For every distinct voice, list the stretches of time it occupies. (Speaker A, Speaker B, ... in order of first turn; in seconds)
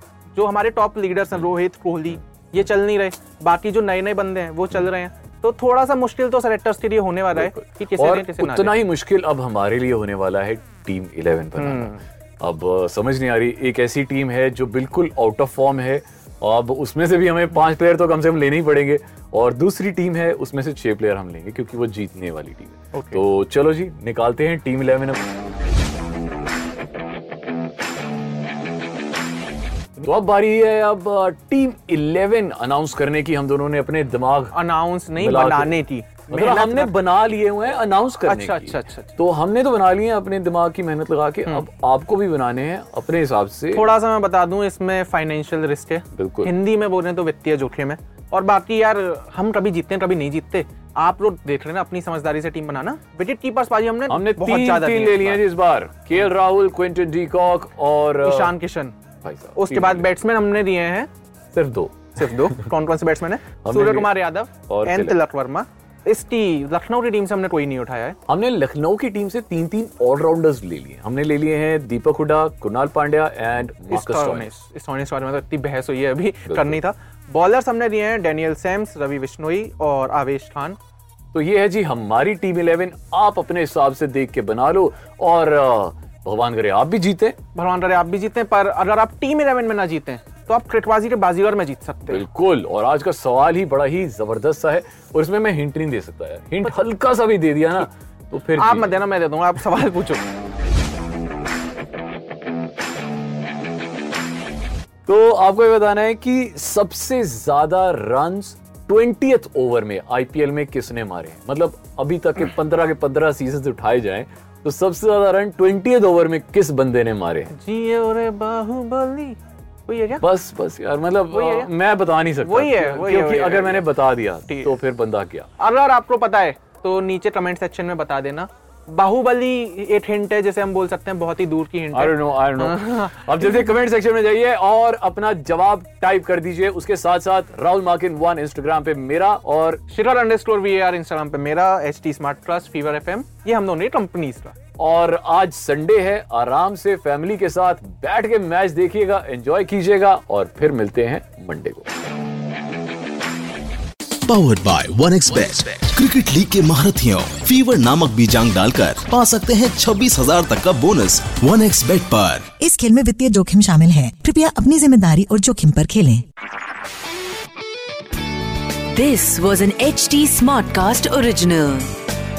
Speaker A: 0.3-8.8, 11.6-12.0, 22.9-23.2, 34.5-37.0, 38.3-39.1, 43.7-55.4, 58.2-59.0, 59.6-61.1, 62.1-68.2, 73.9-80.8, 87.5-92.2, 98.6-100.2, 117.5-120.2, 121.3-121.7, 122.4-123.9, 125.6-133.3, 139.9-144.6
Speaker B: 7.3-25.2, 30.0-34.6, 35.2-35.8, 36.3-43.9, 46.1-46.5, 54.1-58.5, 59.2-60.1, 61.5-62.6, 63.6-64.1, 64.7-65.2, 68.3-74.5, 76.5-76.8, 81.3-87.4, 92.1-99.0, 105.1-117.5, 120.2-125.5, 131.9-139.8, 144.8-151.9
Speaker C: 154.3-162.5
Speaker D: 162.6-166.2
Speaker E: 168.9-171.9